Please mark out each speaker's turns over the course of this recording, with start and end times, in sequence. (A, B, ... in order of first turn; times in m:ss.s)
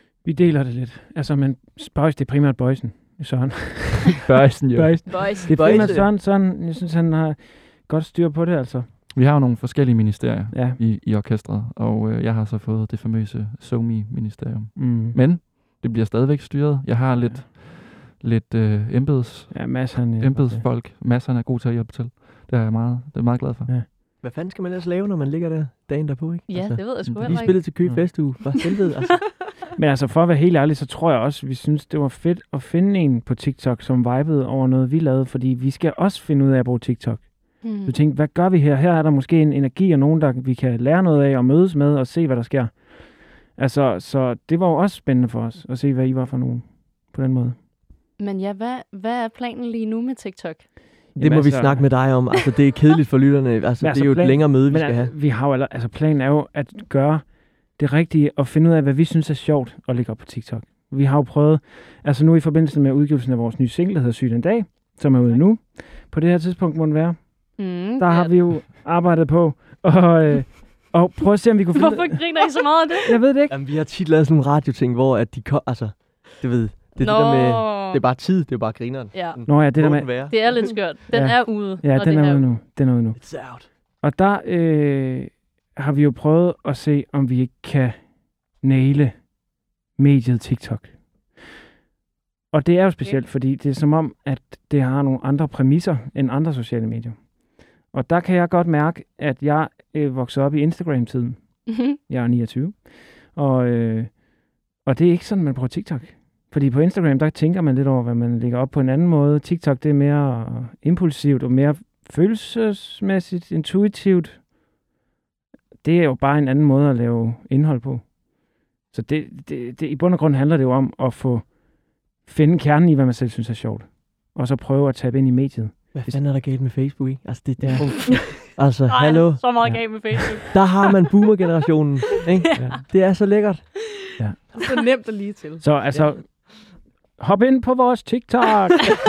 0:00.2-0:08.9 A
0:04.2-0:05.4 B
0:05.1-0:05.9 C
0:05.5-0:06.1 D
0:09.1-0:23.8 B
0:10.5-0:10.8 A
0:14.7-0:15.2 A
0:17.1-0:17.5 A
0:19.5-0:20.7 A
0:24.2-0:29.4 D
0:26.5-0:27.8 C
0:27.0-0:28.2 B
0:29.2-0:29.5 E
0:29.8-0:47.6 A
0:37.6-0:38.0 C
0:48.2-0:50.7 C
0:51.1-0:52.0 A
0:51.1-0:55.1 D
0:53.8-1:12.4 A
1:07.6-1:08.6 C
1:11.7-1:13.1 C
1:13.0-1:13.6 A
1:13.5-1:20.6 D
1:17.0-1:18.0 C
1:19.1-1:22.5 C
1:19.5-1:20.6 A
1:21.1-1:31.4 A
1:23.1-1:23.7 D
1:32.5-1:54.5 A
1:41.7-1:42.0 C
1:55.8-2:06.2 A
2:05.9-2:13.8 D
2:07.6-2:08.0 A
2:08.1-2:10.7 C
2:09.6-2:09.9 A
2:12.6-2:12.8 A
2:14.2-2:14.5 A
2:14.5-2:16.8 E
2:15.6-2:19.0 A